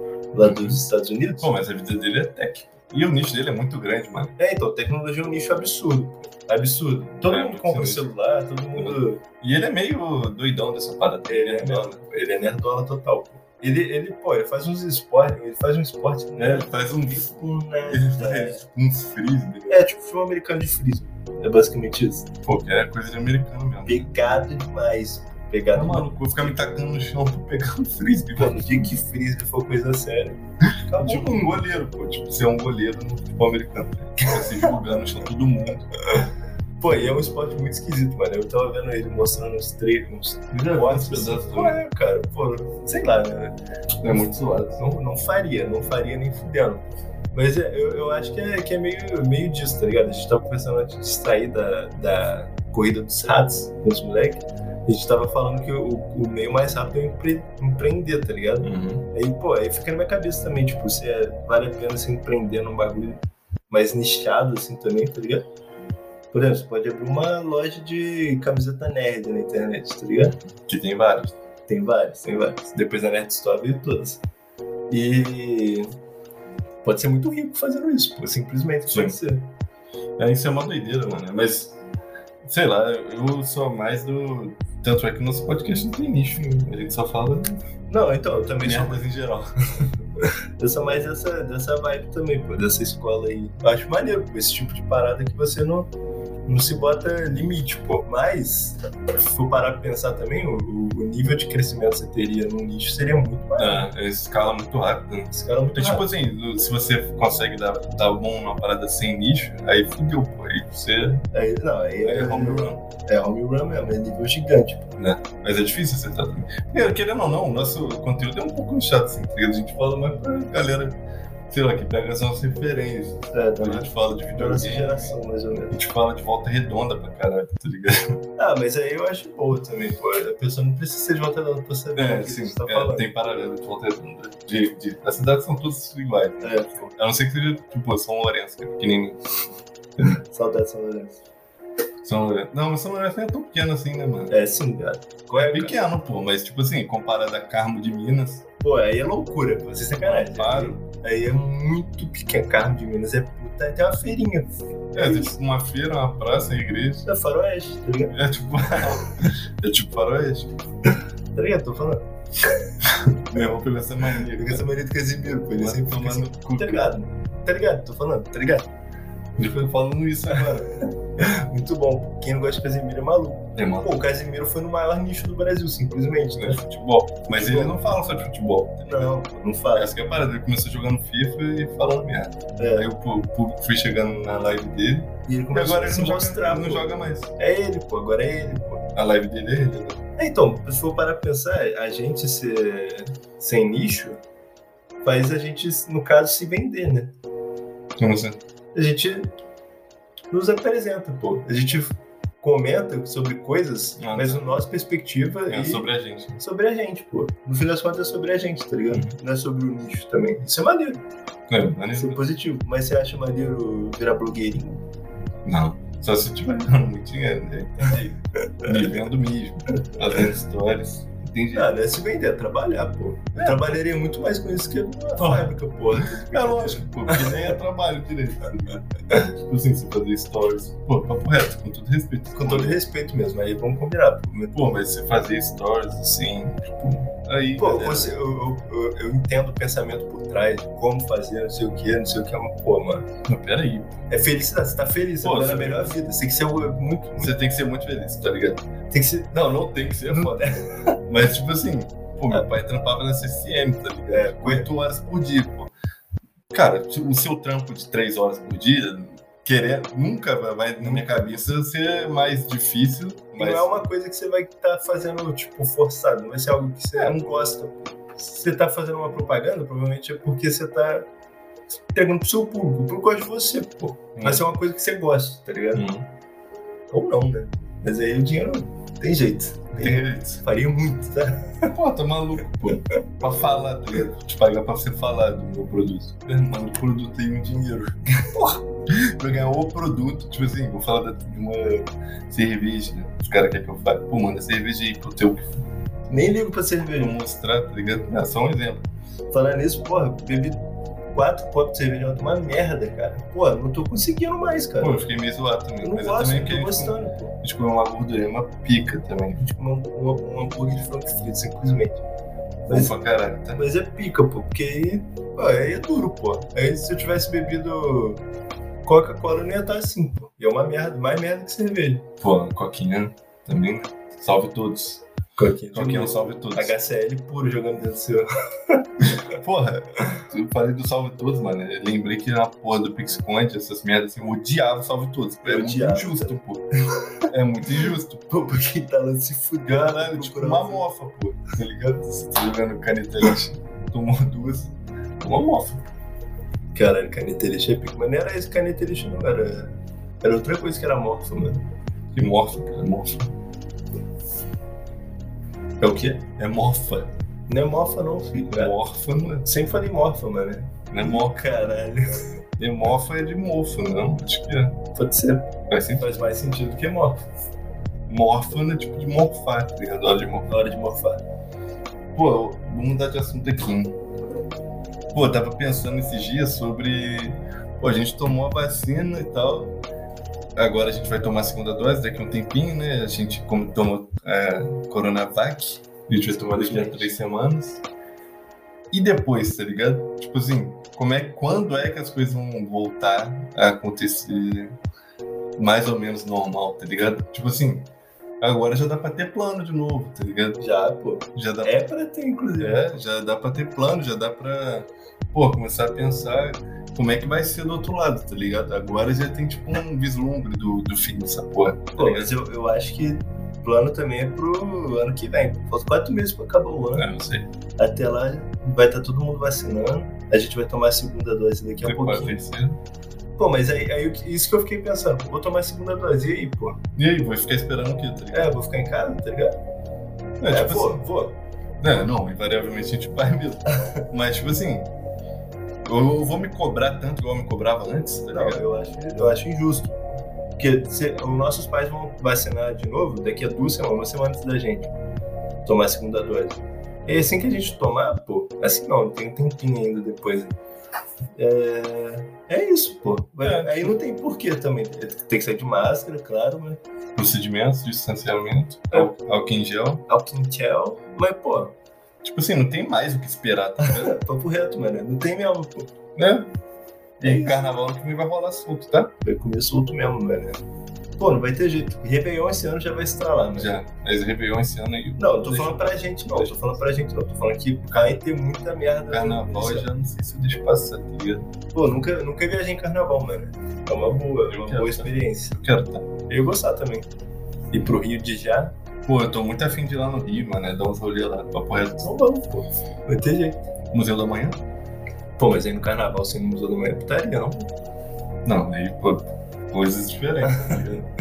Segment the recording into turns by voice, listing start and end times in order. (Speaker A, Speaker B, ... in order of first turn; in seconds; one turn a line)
Speaker A: 0.3-1.5
Speaker B: 0.4-0.8
Speaker B: 1.4-4.3
Speaker A: 4.4-9.2
Speaker B: 7.3-8.1
Speaker B: 8.8-12.0
Speaker A: 11.3-18.6
Speaker B: 16.4-17.3
Speaker B: 17.9-19.8
Speaker A: 19.7-22.3
Speaker B: 22.5-24.1
Speaker A: 23.9-26.5
Speaker B: 25.7-28.9
Speaker A: 28.4-31.6
Speaker B: 30.9-35.9
Speaker A: 34.2-34.7
Speaker A: 36.8-65.5
Speaker B: 40.5-41.8
Speaker B: 44.0-44.8
Speaker B: 58.6-59.1
Speaker A: 66.3-70.4
Speaker B: 70.7-71.3
Speaker A: 71.7-74.2
Speaker A: 74.9-75.9
Speaker A: 76.8-79.5
Speaker B: 78.9-79.2
Speaker B: 80.2-81.8
Speaker B: 82.4-87.6
Speaker A: 87.9-89.0
Speaker B: 88.6-89.5
Speaker A: 90.2-95.9
Speaker A: 96.5-103.9
Speaker B: 103.6-111.2
Speaker A: 105.3-106.1
Speaker A: 111.3-114.9
Speaker B: 112.0-112.8
Speaker B: 115.0-125.2
Speaker A: 123.3-125.7
Speaker B: 125.7-128.2
Speaker A: 128.4-133.1
Speaker B: 132.0-139.2
Speaker A: 136.4-136.9
Speaker A: 140.0-141.2
Speaker B: 142.0-144.4
Speaker A: 144.3-145.8
Speaker B: 145.4-148.4
Speaker A: 148.6-155.3
Speaker B: 150.0-150.8
Speaker B: 154.9-157.1
Speaker A: 157.0-158.2
Speaker B: 158.1-160.6
Speaker A: 161.3-162.0
Speaker B: 162.9-164.6
Speaker A: 164.3-168.7
Speaker B: 165.6-166.9
Speaker B: 169.4-170.7
Speaker A: 170.3-176.6
Speaker B: 173.6-174.0
Speaker B: 176.4-179.1
Speaker A: 177.3-177.8
Speaker A: 178.9-179.9
Speaker B: 179.7-187.3
Speaker A: 182.6-182.9
Speaker A: 185.3-188.8
Speaker B: 188.9-190.0
Speaker A: 190.2-194.2
Speaker A: 195.0-197.1
Speaker B: 198.0-198.4
Speaker A: 198.7-199.3
Speaker A: 200.3-205.9
Speaker B: 204.0-204.5
Speaker B: 205.5-206.4
Speaker A: 206.4-211.0
Speaker B: 211.5-212.2
Speaker A: 212.0-214.8
Speaker B: 215.4-221.7
Speaker A: 221.5-227.5
Speaker B: 223.3-223.8
Speaker B: 225.2-232.8
Speaker A: 232.3-234.6
Speaker B: 234.5-238.1
Speaker A: 237.6-243.1
Speaker B: 243.3-244.0
Speaker A: 244.1-247.3
Speaker B: 245.2-246.0
Speaker B: 247.2-248.6
Speaker A: 248.9-249.4
Speaker B: 249.3-250.3
Speaker A: 250.1-251.0
Speaker B: 251.1-255.7
Speaker A: 254.1-254.7
Speaker B: 256.5-263.8
Speaker A: 260.8-261.4
Speaker A: 263.4-271.1
Speaker B: 267.0-267.2
Speaker A: 271.9-275.9
Speaker B: 274.2-274.4
Speaker B: 275.8-276.1
Speaker A: 276.9-281.7
Speaker B: 279.8-280.4
Speaker B: 281.7-295.5
Speaker A: 296.1-297.2
Speaker B: 296.9-298.9
Speaker A: 299.3-300.6
Speaker A: 301.1-305.0
Speaker B: 304.8-309.4
Speaker A: 305.8-307.4
Speaker A: 309.4-312.0
Speaker A: 312.7-312.9
Speaker B: 312.7-313.6
Speaker A: 313.5-318.2
Speaker A: 318.9-322.1
Speaker B: 322.2-325.0
Speaker A: 325.4-328.9
Speaker B: 325.7-326.8
Speaker B: 329.0-336.6
Speaker A: 335.4-336.4
Speaker B: 337.3-338.3
Speaker A: 338.3-340.9
Speaker B: 339.7-345.8
Speaker A: 346.7-351.7
Speaker B: 352.1-353.3
Speaker B: 355.8-357.1
Speaker A: 357.5-358.8
Speaker B: 358.5-359.5
Speaker A: 359.4-362.1
Speaker B: 360.9-361.4
Speaker B: 362.6-364.8
Speaker A: 364.9-367.2
Speaker B: 365.7-366.1
Speaker B: 368.1-370.5
Speaker A: 370.5-371.2
Speaker B: 372.1-374.0
Speaker B: 375.1-379.8
Speaker B: 380.6-387.8
Speaker A: 386.3-387.1
Speaker B: 388.9-394.8
Speaker B: 395.6-397.9
Speaker B: 398.4-400.6
Speaker A: 400.6-403.0
Speaker B: 401.4-401.8
Speaker B: 402.6-412.3
Speaker A: 412.0-417.1
Speaker B: 417.0-417.5
Speaker A: 417.8-422.4
Speaker B: 421.8-422.8
Speaker A: 423.4-426.8
Speaker B: 427.0-428.5
Speaker A: 428.3-429.6
Speaker B: 430.4-431.0
Speaker A: 430.5-431.4
Speaker B: 431.8-434.9
Speaker B: 435.9-438.6
Speaker A: 438.3-440.0
Speaker A: 440.6-444.9
Speaker A: 445.6-450.5
Speaker A: 451.4-456.8
Speaker B: 453.4-453.9
Speaker B: 457.2-460.1
Speaker A: 460.1-461.8
Speaker B: 462.2-464.1
Speaker A: 463.8-465.9
Speaker B: 466.2-466.5
Speaker B: 467.2-469.1
Speaker A: 467.2-467.6
Speaker A: 469.2-470.6
Speaker A: 471.2-473.8
Speaker B: 473.6-476.6
Speaker A: 475.2-479.9
Speaker B: 479.1-481.5
Speaker A: 481.7-485.6
Speaker B: 484.5-486.1
Speaker A: 486.3-487.1
Speaker A: 487.7-488.7
Speaker B: 489.1-492.1
Speaker A: 492.0-493.6
Speaker B: 493.9-494.6
Speaker A: 495.4-497.7
Speaker B: 498.4-501.0
Speaker A: 500.4-501.0